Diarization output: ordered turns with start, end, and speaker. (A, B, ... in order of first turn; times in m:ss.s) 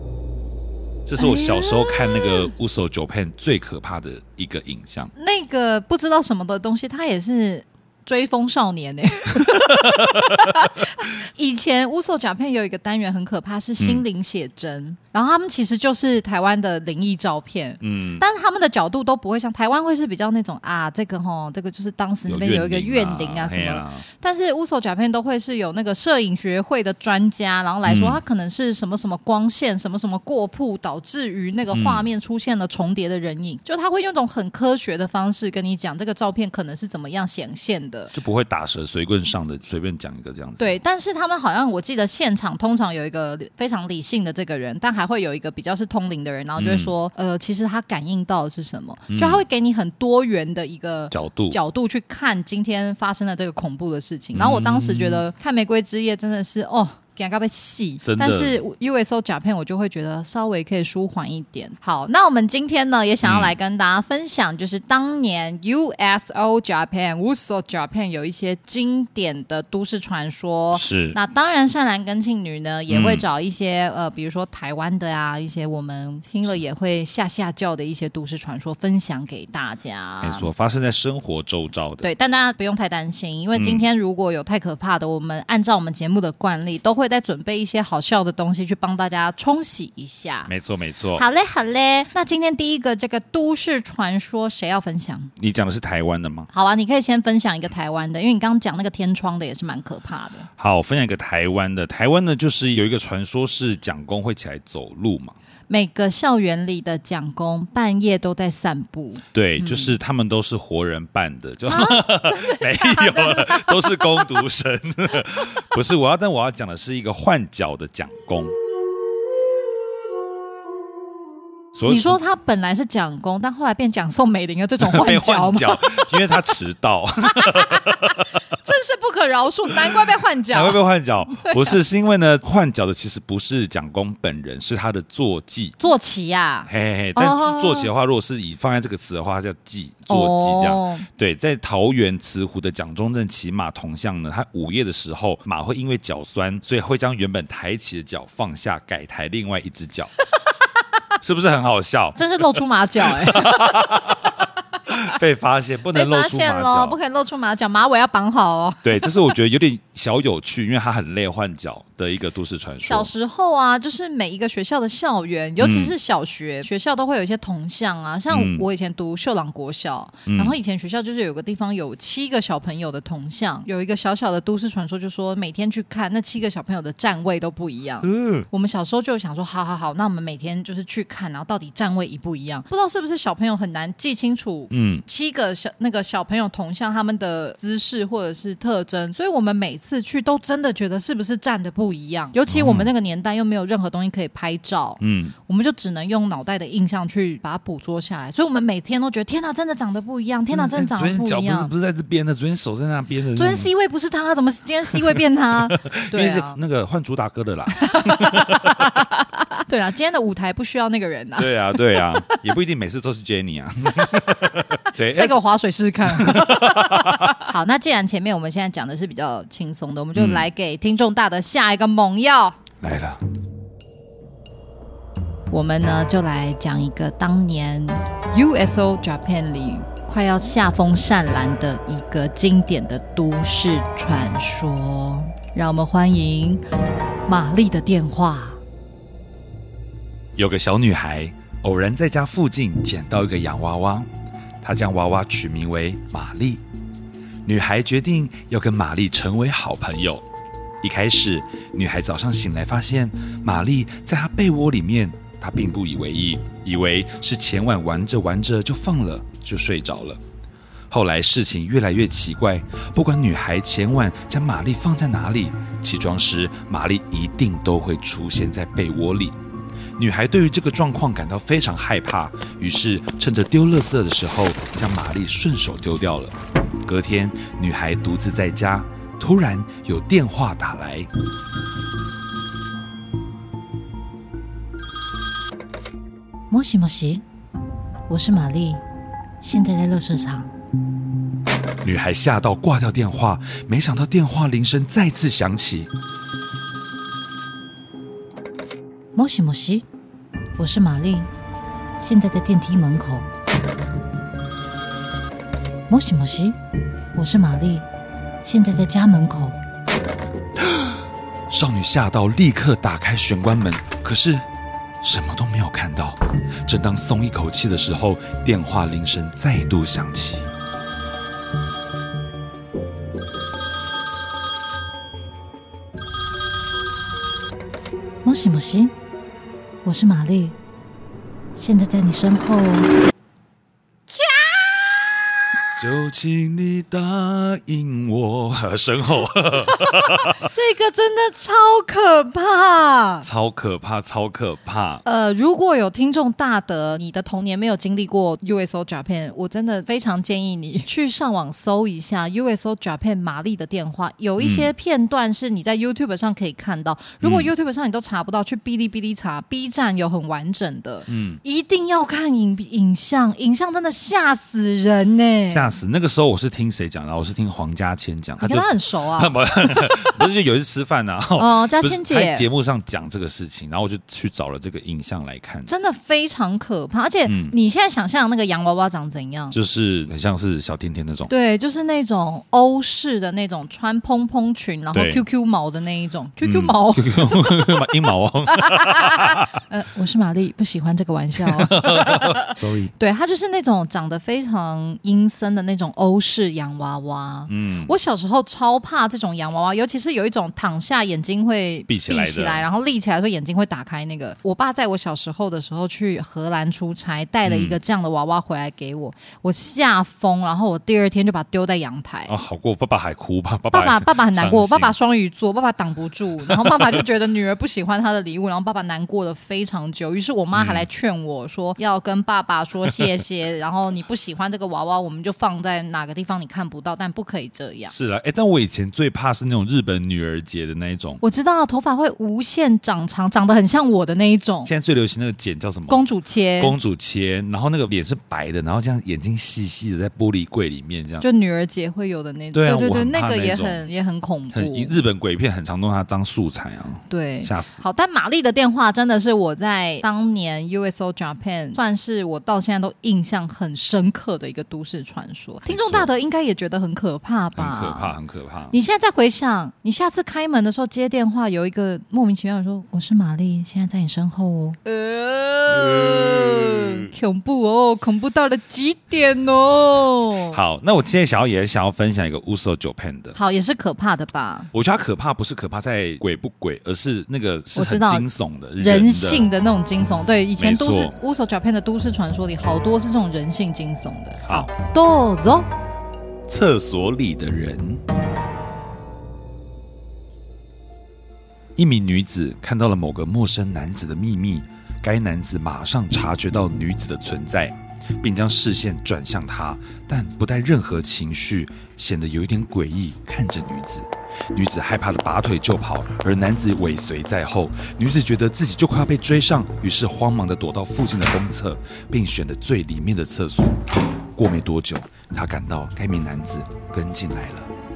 0:01.0-0:05.1 A
0:01.2-0:02.5 B
0:05.2-0:38.1 B
0:09.4-0:10.5 A
0:13.8-0:14.0 A
0:17.8-0:18.2 A
0:22.3-0:24.0 A
0:27.8-0:28.2 A
0:31.7-0:32.1 A
0:38.1-0:40.8 A
0:40.6-1:20.5 B
0:46.6-0:46.9 A
0:49.1-0:49.4 A
0:51.1-0:51.6 A
0:54.3-0:55.2 A
0:58.0-0:58.6 A
1:03.2-1:03.5 A
1:10.7-1:11.2 A
1:12.9-1:13.2 A
1:20.2-1:22.1 A
1:22.0-1:30.5 B
1:23.5-1:23.8 A
1:30.5-1:31.2 A
1:31.1-1:35.3 B
1:35.4-1:36.5 A
1:36.5-1:40.5 B
1:40.6-1:45.4 A
1:45.7-1:49.9 B
1:49.3-1:58.6 A
1:51.7-1:54.3 B
2:01.7-2:02.2 A
2:01.9-2:06.4 B
2:04.8-2:08.4 A
2:07.3-2:10.8 B
2:09.8-2:15.8 A
2:11.3-2:11.8 B
2:15.8-2:17.9 B
2:16.7-2:30.1 A
2:20.1-2:21.0 B
2:31.2-2:37.0 A
2:32.2-2:34.3 B
2:35.9-2:39.2 B
2:38.8-2:43.1 A
2:42.8-3:21.7 B
2:45.6-2:45.9 A
2:48.3-2:48.6 A
2:50.3-2:50.6 A
2:58.0-2:58.5 A
3:04.7-3:05.0 A
3:12.5-3:12.9 A
3:15.0-3:15.3 A
3:20.5-3:23.7 A
3:23.3-3:26.6 B
3:24.9-3:28.9 A
3:27.8-3:32.4 B
3:31.4-3:35.4 A
3:34.0-3:42.6 B
3:36.0-3:37.4 A
3:40.2-3:40.4 A
3:42.8-3:43.2 A
3:45.5-3:56.6 B
3:57.3-3:58.6 B
4:00.4-4:04.1 A
4:04.6-4:06.6 A
4:07.4-4:10.2 A
4:10.8-4:20.2 A
4:20.9-4:29.4 A
4:30.0-4:41.1 A
4:46.5-4:47.2 B
4:48.1-4:48.8 B
4:49.4-4:50.5 B
4:51.8-4:55.9 A
4:59.1-4:59.8 B
5:00.6-5:01.3 B
5:02.0-5:03.3 B
5:05.9-5:06.6 B
5:07.1-5:07.9 B
5:08.4-5:09.6 B
5:10.6-5:11.0 A
5:11.5-5:14.4 A
5:15.0-5:20.5 A
5:28.2-5:28.9 B
5:29.8-5:30.6 B
5:31.6-5:32.9 B
5:34.1-5:35.3 B
5:35.8-5:40.5 A
5:39.7-5:43.2 B
5:43.2-5:45.0 A
5:45.0-6:05.7 B
5:54.4-5:54.7 A
5:57.2-5:57.5 A
6:01.1-6:01.4 A
6:05.5-6:15.7 A
6:08.4-6:10.2 B
6:11.4-6:12.5 B
6:15.7-6:19.6 B
6:17.2-6:17.5 A
6:19.5-6:21.3 A
6:21.3-6:52.3 B
6:24.9-6:25.2 A
6:26.4-6:29.5 A
6:31.4-6:32.9 A
6:37.5-6:37.9 A
6:41.9-6:42.6 A
6:47.4-6:47.8 A
6:52.3-6:54.9 A
6:53.7-7:07.9 B
6:56.4-6:57.0 A
7:00.5-7:00.9 A
7:02.9-7:03.1 A
7:07.9-7:11.2 A
7:11.2-7:14.7 B
7:14.6-7:16.0 A
7:15.9-7:16.7 B
7:16.6-7:21.2 A
7:21.2-7:24.9 B
7:22.5-7:23.8 A
7:24.5-7:27.8 A
7:27.1-7:38.1 B
7:35.7-7:36.1 A
7:37.6-7:38.7 A
7:38.7-7:50.6 B
7:45.7-7:47.1 A
7:50.5-7:53.4 A
7:53.3-7:54.7 B
7:54.7-7:59.5 A
7:57.7-7:58.2 B
7:58.8-8:05.7 B
8:00.6-8:01.2 A
8:06.5-8:08.0 A
8:11.8-8:33.8 A
8:34.3-8:37.7 A